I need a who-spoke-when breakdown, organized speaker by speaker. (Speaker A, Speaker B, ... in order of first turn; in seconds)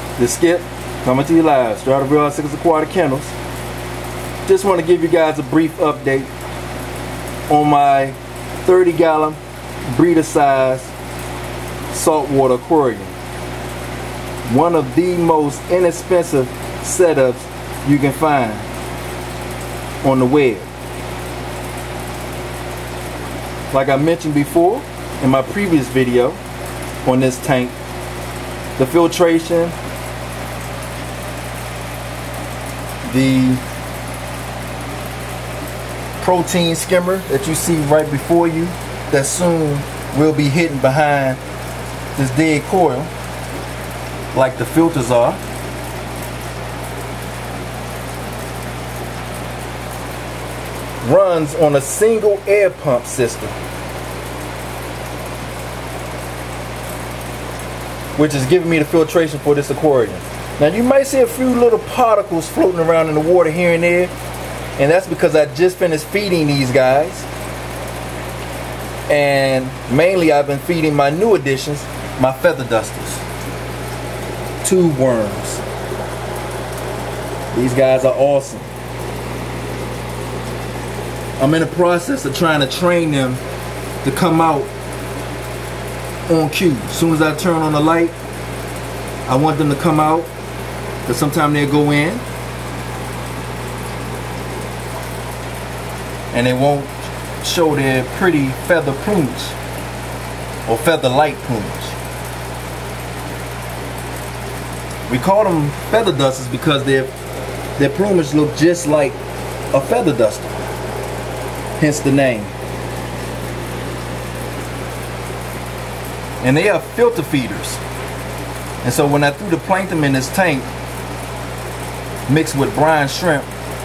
Speaker A: 0.2-3.3, 4.4-6.3, 7.5-10.9, 11.9-13.1, 14.4-18.7, 20.0-20.7, 23.7-26.4, 27.0-27.7, 28.8-29.7, 33.0-33.6, 36.2-41.4, 42.1-43.1, 44.3-45.4, 51.0-53.5, 58.1-64.1, 64.8-67.3, 69.1-73.2, 74.6-75.6, 77.5-78.7, 81.4-83.4, 84.0-84.7, 86.3-88.1, 89.2-90.3, 91.0-92.2, 96.3-99.5, 100.7-102.0, 105.1-107.1, 107.8-109.2, 109.7-110.5, 111.8-112.5, 116.4-117.8, 118.8-120.7, 122.3-123.5